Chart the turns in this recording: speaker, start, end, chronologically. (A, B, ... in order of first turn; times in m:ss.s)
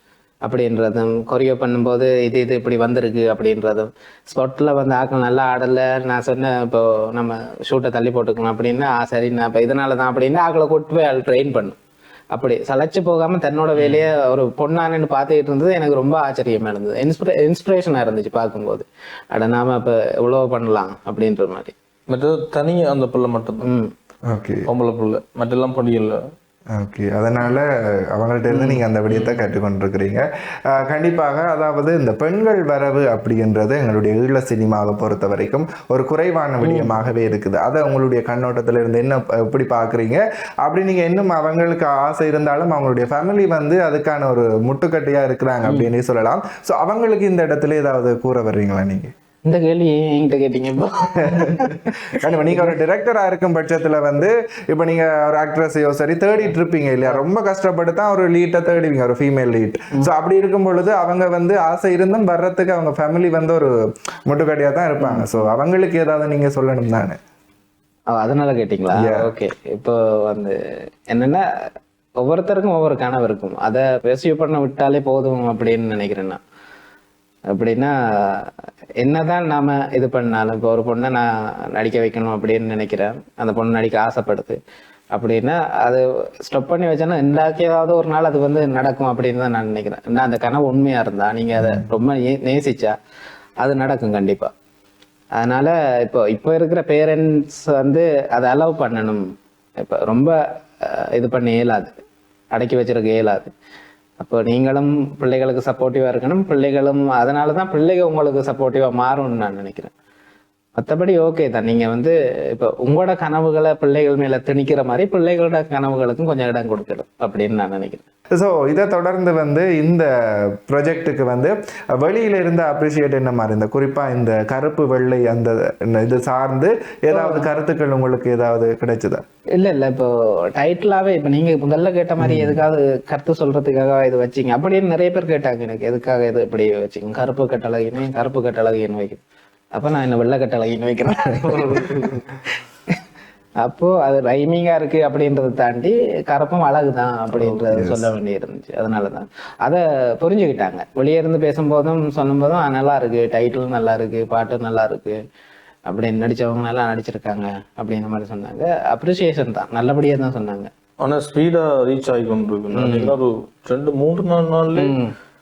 0:00.4-0:11.8 A
0:12.3-0:21.7 A
0:13.8-0:14.0 B
0:22.1-0:23.7 B
0:23.6-0:23.9 A
0:24.2-0:24.6 C
0:24.6-0:26.2 B
0:26.7-0:49.1 C
0:28.5-0:28.8 A
0:29.1-0:29.4 B
0:36.6-0:36.9 A
0:49.4-0:52.7 A
0:51.2-1:03.7 C
1:04.3-1:07.2 C
1:05.0-1:05.5 A
1:08.1-1:10.6 A
1:08.9-1:09.3 C
1:11.1-1:11.4 A
1:12.2-1:16.4 A
1:17.5-1:24.6 A
1:25.1-1:32.9 A
1:31.6-1:31.8 C
1:33.6-1:34.5 A
1:35.3-1:39.2 A
1:39.8-1:41.9 A
1:42.5-1:43.5 A
1:44.2-1:49.9 A
1:50.8-1:58.0 A
1:58.3-2:09.2 C
2:07.1-2:07.5 A
2:09.6-2:19.2 A
2:12.2-2:12.6 C
2:19.8-2:22.4 A
2:23.6-2:35.2 A
2:27.7-2:28.1 C
2:35.9-2:40.7 A
2:41.0-2:44.9 B
2:42.7-2:43.1 A
2:44.8-2:45.1 A